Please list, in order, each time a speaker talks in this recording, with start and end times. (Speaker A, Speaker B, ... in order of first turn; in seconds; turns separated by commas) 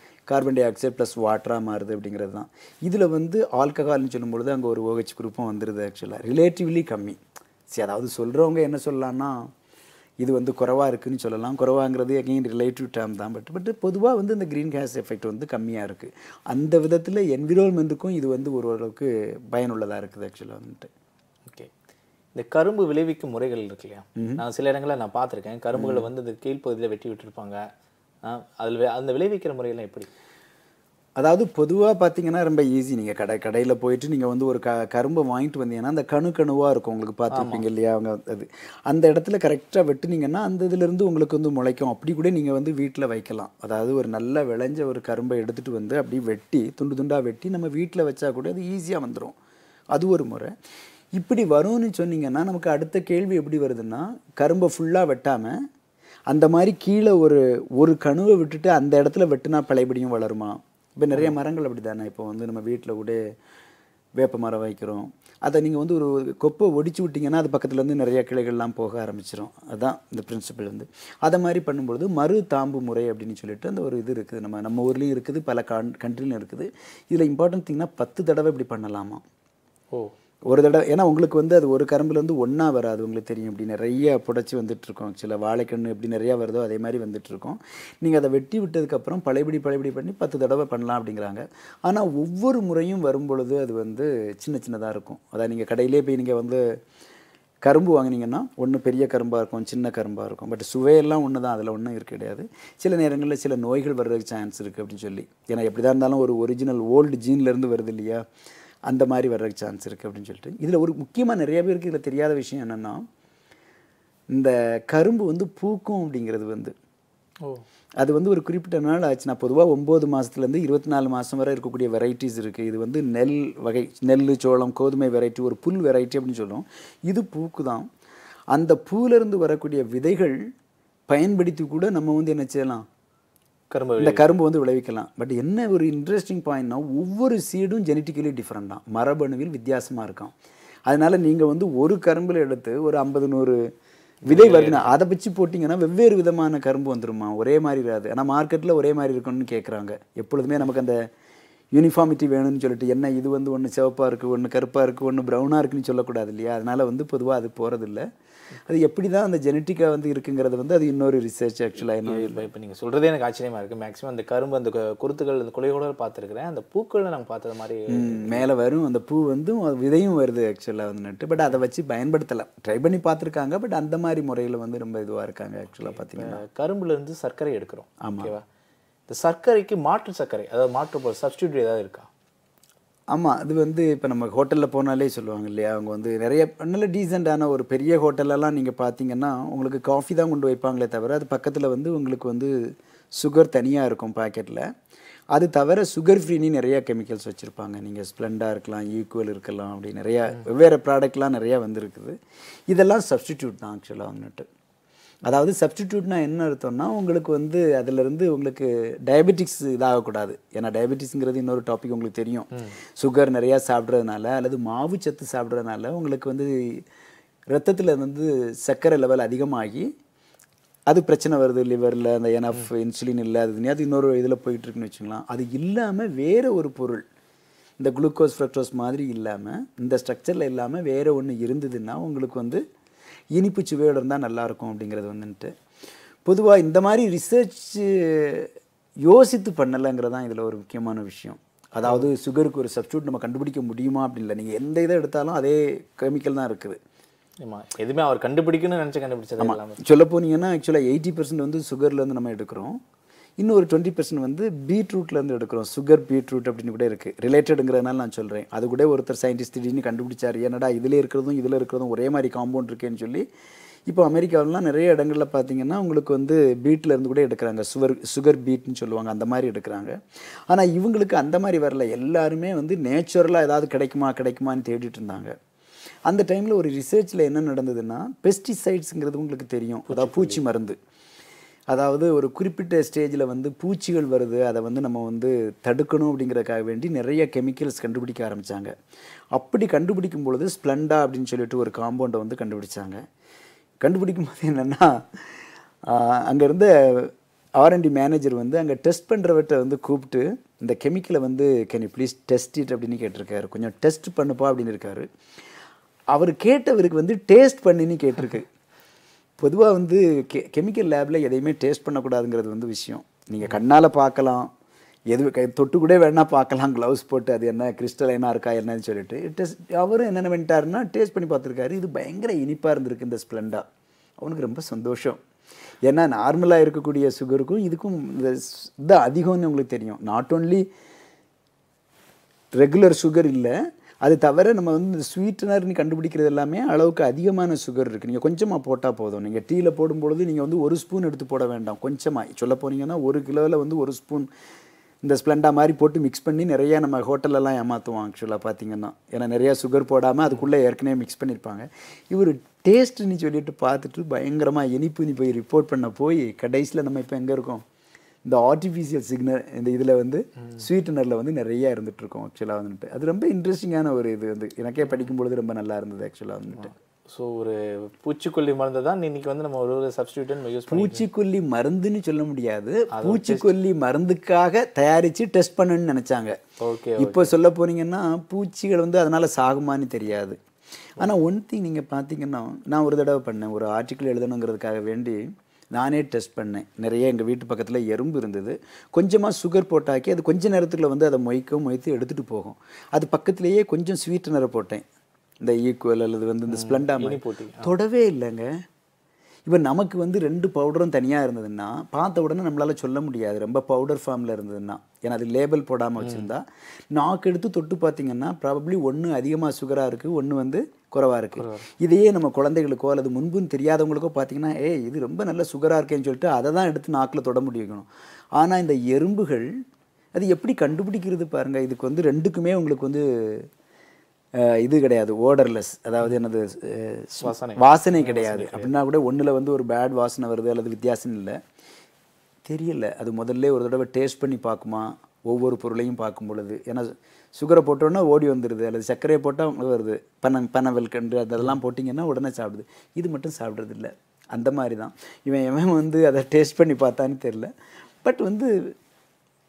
Speaker A: 0.3-9.5, Speaker A: 10.2-20.9, Speaker B: 22.3-27.6, Speaker A: 24.1-24.4, Speaker A: 25.8-26.1, Speaker B: 28.2-30.1, Speaker A: 31.2-49.4, Speaker B: 37.3-37.6, Speaker A: 49.9-50.5, Speaker A: 51.1-55.5, Speaker A: 56.3-63.2, Speaker A: 64.2-79.2, Speaker A: 80.5-96.6, Speaker A: 97.6-108.2, Speaker A: 108.9-113.0, Speaker A: 114.3-116.7, Speaker A: 118.0-127.8, Speaker A: 128.5-130.4, Speaker A: 131.1-132.8, Speaker B: 133.7-134.3, Speaker A: 134.0-140.3, Speaker A: 140.9-143.6, Speaker B: 144.2-144.9, Speaker A: 144.3-151.0, Speaker A: 151.7-158.0, Speaker A: 158.7-162.4, Speaker B: 162.0-168.4, Speaker A: 167.9-176.4, Speaker B: 175.8-178.4, Speaker A: 178.0-178.3, Speaker B: 179.1-182.1, Speaker A: 183.1-192.5, Speaker A: 193.1-194.7, Speaker A: 195.3-202.2, Speaker A: 202.7-204.5, Speaker A: 205.2-216.8, Speaker A: 217.5-219.9, Speaker A: 220.9-227.0, Speaker A: 227.8-232.6, Speaker A: 233.3-235.5, Speaker A: 236.2-238.5, Speaker A: 239.0-246.8, Speaker B: 241.8-242.1, Speaker B: 247.4-249.8, Speaker A: 249.4-252.8, Speaker A: 253.4-263.2, Speaker A: 263.9-270.0, Speaker A: 270.5-275.4, Speaker A: 276.1-280.8, Speaker B: 279.9-280.4, Speaker A: 281.7-288.7, Speaker A: 289.3-293.0, Speaker A: 293.8-305.1, Speaker A: 306.1-308.5, Speaker A: 309.4-314.5, Speaker A: 315.1-323.6, Speaker A: 324.2-325.2, Speaker A: 325.8-330.6, Speaker A: 332.5-344.3, Speaker A: 345.0-357.6, Speaker A: 358.2-366.7, Speaker B: 367.1-371.1, Speaker A: 370.7-376.4, Speaker B: 372.9-373.5, Speaker B: 376.6-377.3, Speaker A: 377.0-380.4, Speaker A: 381.0-394.8, Speaker A: 395.4-398.5, Speaker B: 396.5-397.7, Speaker A: 399.4-419.5, Speaker B: 406.0-406.3, Speaker B: 411.4-411.6, Speaker A: 420.1-423.5, Speaker A: 424.4-431.4, Speaker B: 427.2-428.7, Speaker A: 432.4-447.5, Speaker A: 448.0-448.7